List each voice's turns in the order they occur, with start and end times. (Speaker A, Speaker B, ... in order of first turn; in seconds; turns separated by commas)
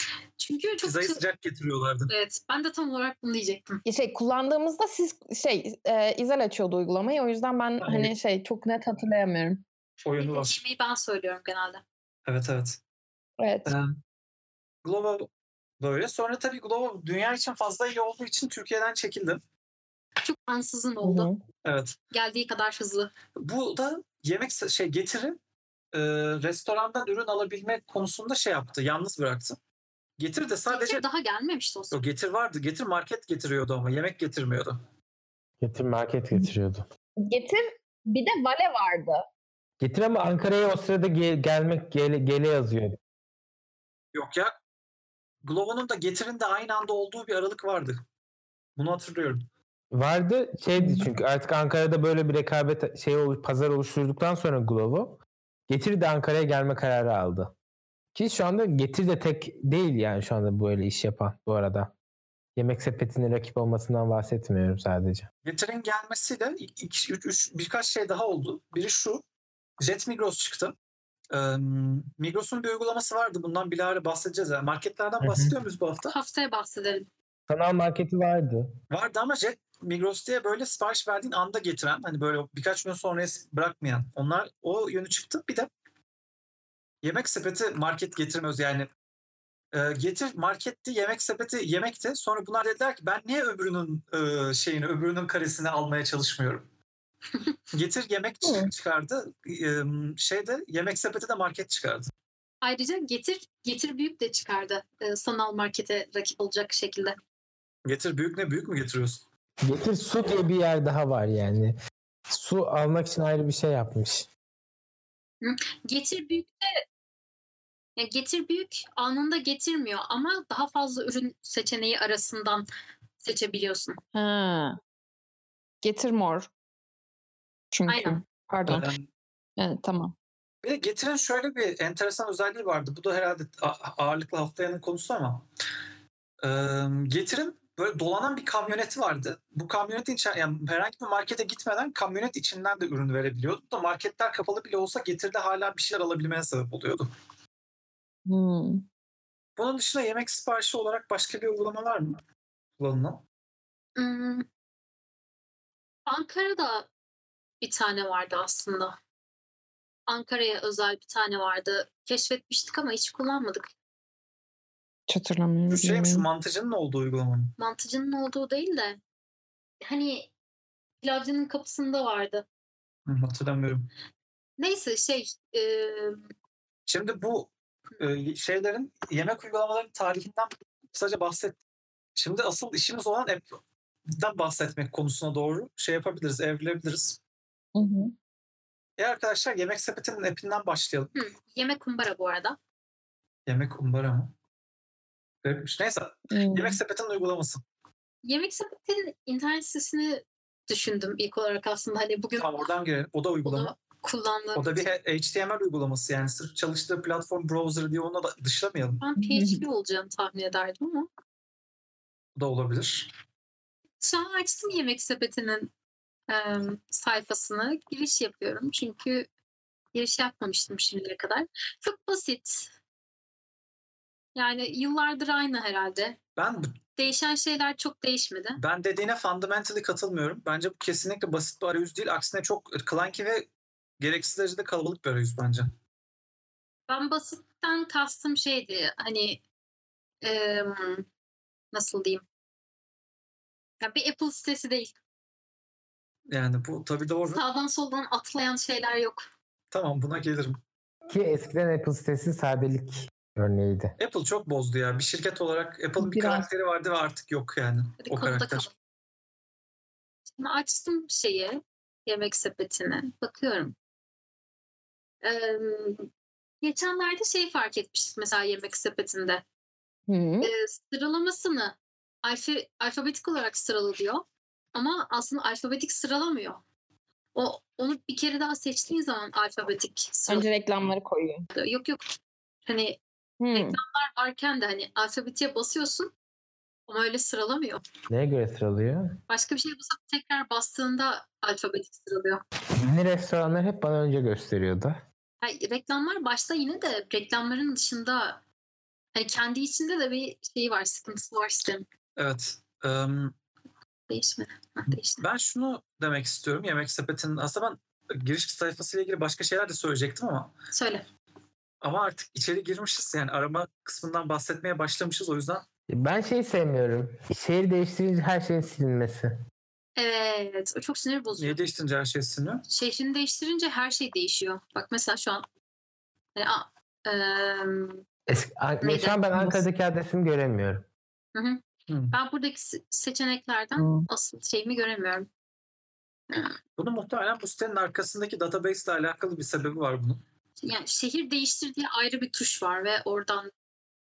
Speaker A: 0.4-1.2, Speaker B: 0.8-2.1, Speaker A: 2.1-3.8, Speaker C: 3.9-9.6, Speaker B: 7.8-8.1, Speaker B: 10.1-10.6, Speaker A: 10.2-11.8, Speaker B: 12.3-12.8, Speaker C: 13.4-13.7, Speaker B: 13.7-13.9, Speaker B: 14.8-15.3, Speaker B: 15.8-19.4, Speaker A: 20.2-21.3, Speaker C: 21.0-21.4, Speaker B: 21.6-22.0, Speaker A: 22.1-23.1, Speaker B: 23.4-25.4, Speaker B: 25.9-29.6, Speaker B: 30.2-31.0, Speaker A: 30.7-32.0, Speaker B: 31.9-34.8, Speaker D: 35.6-36.8, Speaker C: 37.2-39.2, Speaker D: 39.8-43.0, Speaker B: 44.1-44.5, Speaker B: 45.4-48.0, Speaker B: 48.8-49.4, Speaker D: 49.9-57.5, Speaker C: 50.8-51.1, Speaker D: 58.1-61.9, Speaker D: 62.6-65.3, Speaker B: 65.5-69.2, Speaker B: 69.8-70.8, Speaker B: 71.3-76.1, Speaker D: 75.2-75.6, Speaker A: 76.1-77.1, Speaker D: 77.5-78.7, Speaker B: 78.9-85.7, Speaker B: 87.0-88.9, Speaker B: 89.7-96.7, Speaker B: 97.7-102.1, Speaker C: 98.4-98.7, Speaker A: 102.6-107.2, Speaker B: 107.8-109.2, Speaker D: 109.6-111.7, Speaker D: 112.3-114.3, Speaker A: 115.4-116.8, Speaker A: 118.0-122.7, Speaker A: 123.2-124.0, Speaker C: 124.1-124.8, Speaker C: 125.8-126.5, Speaker C: 127.7-128.9, Speaker A: 127.9-128.2, Speaker B: 128.7-129.1, Speaker C: 129.6-130.1, Speaker B: 130.6-135.4, Speaker B: 136.4-147.1, Speaker C: 148.3-148.8, Speaker B: 149.6-152.2, Speaker B: 152.8-153.2, Speaker A: 154.0-154.5, Speaker A: 156.1-156.9, Speaker A: 157.6-159.0, Speaker A: 160.1-163.7, Speaker C: 165.1-166.3, Speaker B: 165.7-167.6, Speaker A: 167.6-169.0, Speaker A: 169.8-170.3, Speaker A: 171.0-172.4, Speaker B: 173.1-173.9, Speaker A: 174.6-176.3, Speaker B: 176.9-181.6, Speaker B: 182.2-183.5, Speaker B: 184.1-187.2, Speaker C: 187.8-188.1, Speaker B: 189.0-191.1, Speaker A: 191.1-192.6, Speaker B: 193.5-194.3, Speaker B: 195.4-197.6, Speaker C: 196.3-196.8, Speaker A: 198.2-202.7, Speaker B: 202.4-203.7, Speaker A: 203.4-204.9, Speaker B: 204.6-209.0, Speaker A: 209.0-211.1, Speaker C: 209.2-209.6, Speaker B: 212.4-213.1, Speaker A: 214.0-215.7, Speaker A: 216.3-219.3, Speaker A: 219.9-222.7, Speaker A: 224.3-226.2, Speaker B: 226.4-226.8, Speaker A: 227.0-228.6, Speaker B: 228.6-233.5, Speaker B: 234.0-235.7, Speaker A: 236.9-239.4, Speaker A: 240.2-241.1, Speaker A: 241.7-242.2, Speaker A: 243.8-244.9, Speaker B: 246.3-247.4, Speaker A: 247.3-249.3, Speaker B: 249.7-250.6, Speaker D: 251.1-253.9, Speaker B: 254.0-258.7, Speaker C: 256.0-256.5, Speaker A: 258.0-258.7, Speaker A: 260.4-263.8, Speaker A: 265.2-266.1, Speaker A: 266.6-269.4, Speaker C: 270.1-270.5, Speaker A: 270.4-276.6, Speaker A: 277.4-280.5, Speaker C: 280.3-281.5, Speaker A: 281.6-283.0, Speaker C: 283.4-283.8, Speaker A: 283.5-286.1, Speaker A: 286.9-287.8, Speaker D: 288.1-289.1, Speaker A: 289.3-292.4, Speaker D: 292.8-295.0, Speaker A: 295.4-298.4, Speaker A: 299.1-301.9, Speaker B: 302.2-303.4, Speaker A: 304.1-305.2, Speaker B: 304.9-310.5, Speaker A: 310.7-311.0, Speaker B: 311.8-315.6, Speaker D: 315.9-319.3, Speaker A: 320.0-321.6, Speaker B: 321.4-322.6, Speaker A: 322.7-325.4, Speaker A: 326.4-328.0, Speaker D: 328.3-330.9, Speaker A: 328.8-329.2, Speaker C: 329.4-329.6, Speaker A: 331.4-335.3, Speaker B: 331.9-332.2, Speaker C: 333.8-334.1, Speaker A: 336.3-336.6, Speaker B: 336.8-340.2, Speaker A: 340.6-343.5